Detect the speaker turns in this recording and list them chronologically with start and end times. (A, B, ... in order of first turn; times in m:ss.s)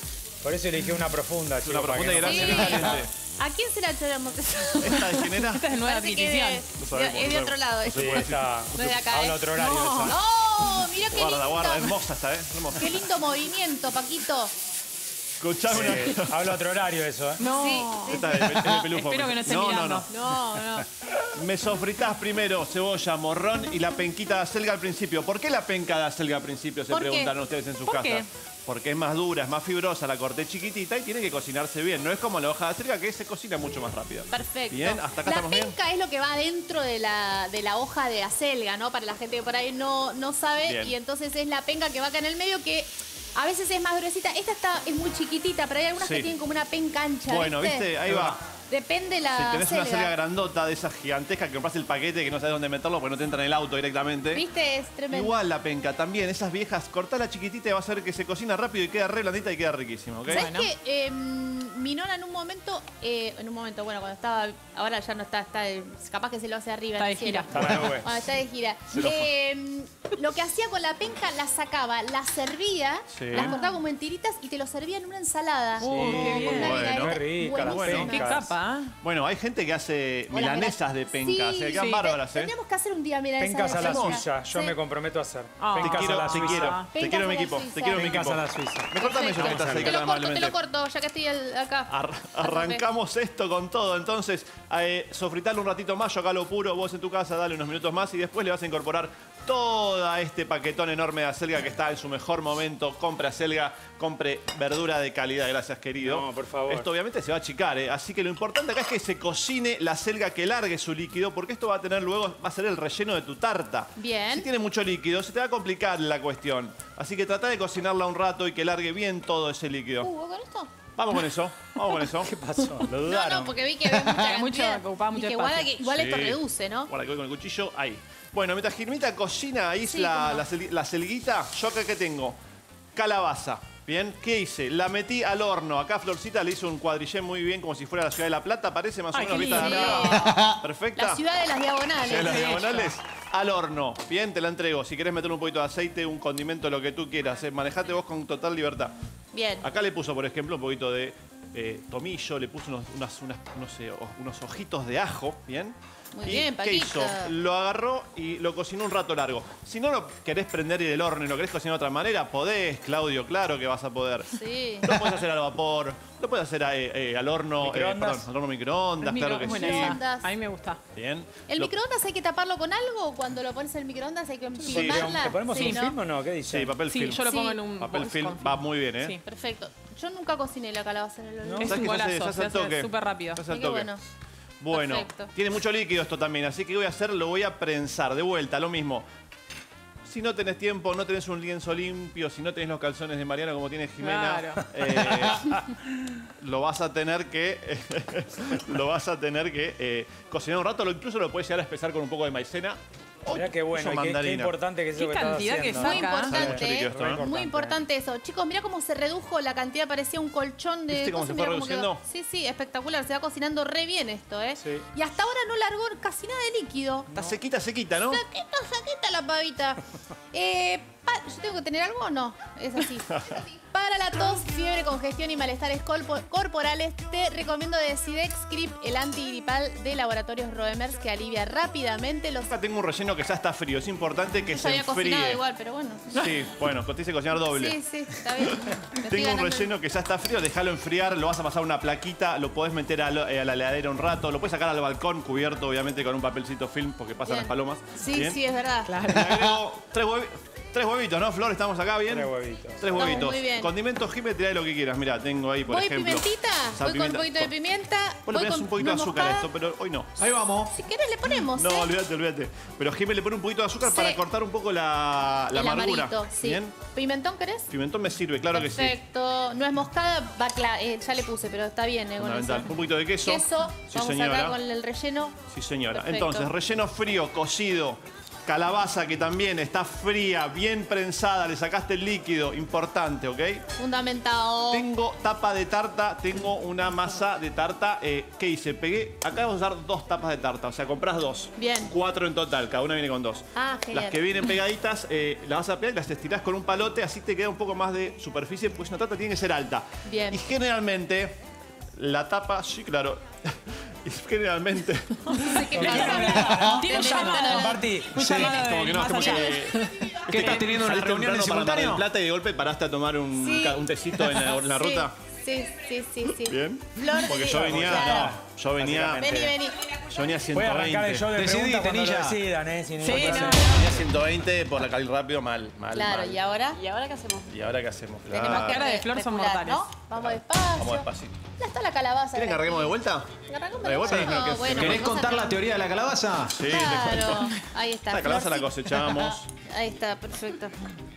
0:00.4-0:03.0 A
0:01.6-0:03.1 B
0:02.2-0:11.9 C
0:04.8-0:05.6 B
0:05.6-0:06.6 D
0:06.7-0:08.6 B
0:07.9-0:10.2 A
0:09.6-0:10.0 D
0:11.1-0:12.8 B
0:12.8-0:14.5 C
0:15.4-0:16.6 B
0:15.7-0:17.4 A
0:17.4-0:20.1 D
0:17.4-0:18.5 C
0:18.1-0:20.1 B
0:20.1-0:20.9 C
0:21.4-0:35.8 B
0:26.9-0:27.3 C
0:27.8-0:28.3 D
0:34.3-0:50.1 C
0:40.6-0:41.0 B
0:46.0-0:46.3 B
0:47.3-0:48.4 B
0:49.3-0:54.4 B
0:54.3-0:55.4 C
0:55.1-1:00.5 B
1:00.3-1:18.4 C
1:00.3-1:00.7 D
1:07.0-1:07.5 D
1:07.5-1:08.1 A
1:08.9-1:09.3 B
1:13.1-1:13.6 B
1:13.3-1:13.8 D
1:15.8-1:16.9 D
1:15.8-1:18.5 A
1:16.4-1:18.3 B
1:17.7-1:19.0 D
1:19.0-1:22.5 B
1:20.3-1:24.8 C
1:23.4-1:26.8 A
1:23.7-1:24.2 B
1:25.6-1:26.9 D
1:25.8-1:30.6 B
1:26.9-1:28.1 C
1:27.9-1:30.0 A
1:29.0-1:32.8 C
1:31.9-2:00.1 B
1:46.0-1:46.9 A
1:54.0-1:54.5 C
2:00.0-2:00.7 C
2:01.0-2:03.6 B
2:02.2-2:03.0 A
2:03.0-2:06.9 C
2:04.0-2:05.8 D
2:05.8-2:12.4 B
2:09.8-2:10.5 C
2:13.0-2:21.2 B
2:19.1-2:20.4 D
2:19.4-2:22.9 C
2:22.0-2:28.9 B
2:22.2-2:22.8 D
2:29.3-2:29.7 C
2:29.6-2:44.3 B
2:36.1-2:37.3 C
2:44.3-2:45.0 C
2:44.8-2:50.0 B
2:47.6-2:48.3 A
2:49.0-2:50.8 D
2:49.4-2:50.3 C
2:51.0-2:51.7 B
2:51.5-2:56.0 C
2:54.6-2:56.8 A
2:54.7-2:55.2 B
2:55.5-2:55.8 D
2:56.4-2:59.2 B
2:56.9-2:59.2 D
2:57.2-2:57.6 C
2:59.2-3:01.9 C
3:01.4-3:01.8 A
3:01.6-3:03.4 D
3:01.6-3:03.9 B
3:03.5-3:04.0 C
3:04.6-3:09.1 B
3:04.7-3:05.3 C
3:10.1-3:15.6 B
3:14.0-3:14.6 D
3:16.4-3:24.5 B
3:23.3-3:27.8 A
3:25.0-3:26.4 D
3:25.8-3:37.2 C
3:26.3-3:27.2 B
3:30.9-3:32.0 B
3:34.6-3:34.9 A
3:37.1-3:38.2 B
3:38.0-3:39.8 C
3:40.3-3:52.5 C
3:43.1-3:43.4 B
3:52.5-3:55.4 B
3:54.5-3:56.3 C
3:56.2-3:57.8 B
3:57.5-3:59.7 C
3:59.1-4:08.4 B
4:07.2-4:09.4 C
4:08.9-4:09.4 D
4:09.0-4:17.5 B
4:12.1-4:13.2 A
4:12.9-4:13.7 C
4:15.7-4:19.5 C
4:18.3-4:20.1 B
4:20.2-4:20.7 E
4:20.7-4:21.9 C
4:21.5-4:26.8 B
4:23.8-4:24.2 C
4:25.5-4:27.7 C
4:27.7-4:29.0 B
4:28.5-4:35.4 C
4:32.2-4:34.6 B
4:35.5-4:43.6 B
4:35.9-4:36.5 C
4:43.8-4:44.9 C
4:44.7-5:01.4 B
4:51.6-4:51.9 C
4:53.6-4:54.2 C
5:00.1-5:00.4 C
5:02.0-5:06.4 B
5:05.3-5:07.8 C
5:05.7-5:08.2 A
5:06.0-5:10.6 D
5:08.2-5:15.2 B
5:09.2-5:09.6 C
5:10.3-5:12.0 E
5:13.4-5:18.4 C
5:16.4-5:19.3 B
5:17.5-5:19.6 A
5:19.2-5:20.0 C
5:20.1-5:21.3 B
5:20.5-5:23.8 A
5:21.3-5:22.4 E
5:23.0-5:23.7 D
5:23.1-5:26.4 B
5:23.1-5:23.8 C
5:25.9-5:27.5 C
5:27.5-5:28.9 B
5:28.3-5:35.6 C
5:28.4-5:29.9 D
5:30.2-5:31.4 B
5:32.4-5:35.2 B
5:34.1-5:36.6 E
5:36.6-5:37.5 B
5:36.6-5:40.8 C
5:38.1-5:39.5 B